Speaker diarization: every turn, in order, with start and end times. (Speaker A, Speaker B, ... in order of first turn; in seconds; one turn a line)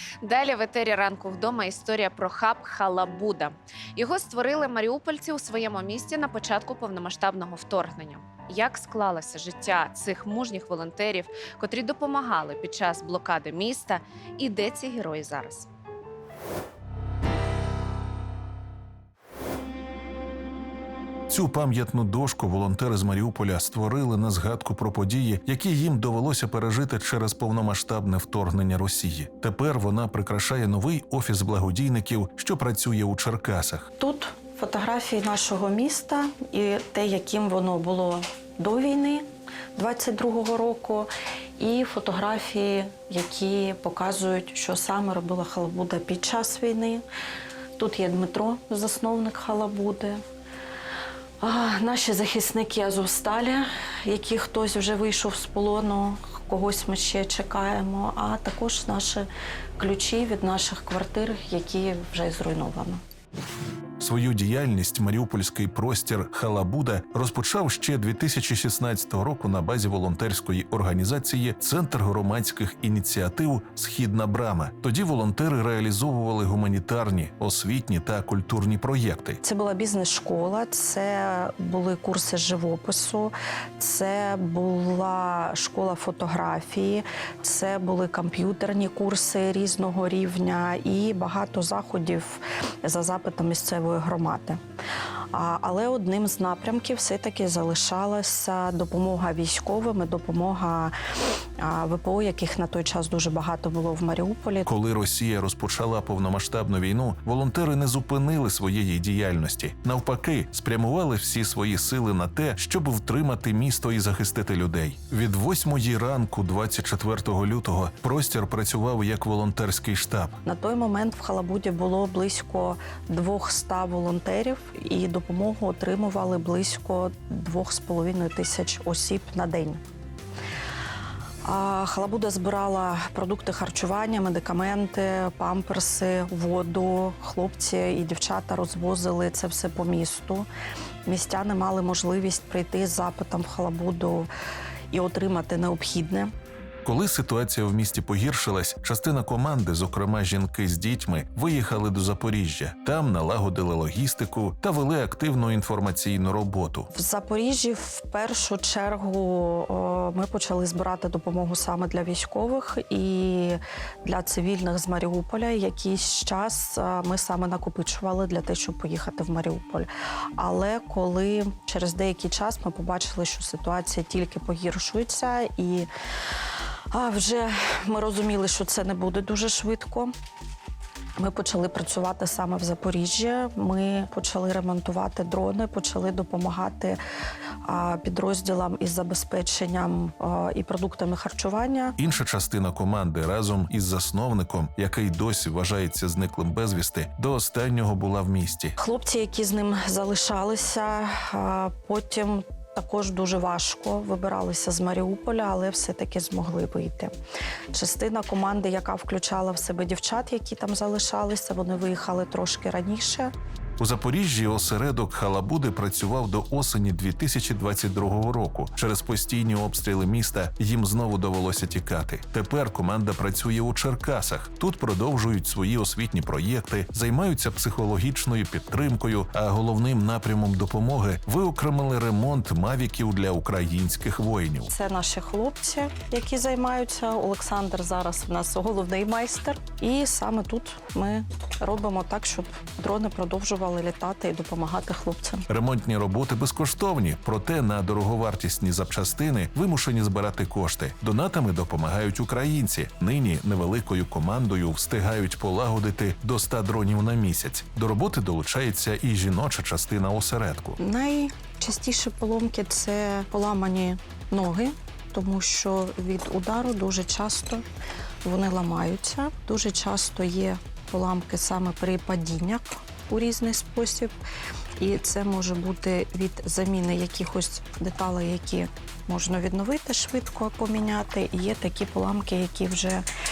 Speaker A: 0.2-15.7
Speaker B: 21.3-33.9
Speaker C: 34.0-47.0
Speaker C: 47.8-50.2
Speaker C: 51.4-63.0
Speaker B: 64.0-79.4
Speaker C: 79.4-94.6
Speaker C: 95.3-100.9
Speaker C: 101.6-104.7
Speaker B: 104.7-120.3
Speaker C: 120.4-129.8
Speaker C: 131.4-140.5
Speaker C: 141.0-144.3
Speaker C: 144.9-146.3
Speaker B: 146.8-156.9
Speaker C: 156.9-175.9
Speaker C: 176.9-180.1
Speaker C: 181.2-187.0
Speaker C: 187.6-192.0
Speaker B: 192.0-198.7
Speaker C: 198.8-207.1
Speaker C: 207.7-213.3
Speaker B: 213.8-234.7
Speaker C: 234.7-245.5
Speaker B: 245.5-260.8
Speaker C: 260.8-267.6
Speaker C: 268.2-274.1
Speaker C: 274.8-283.0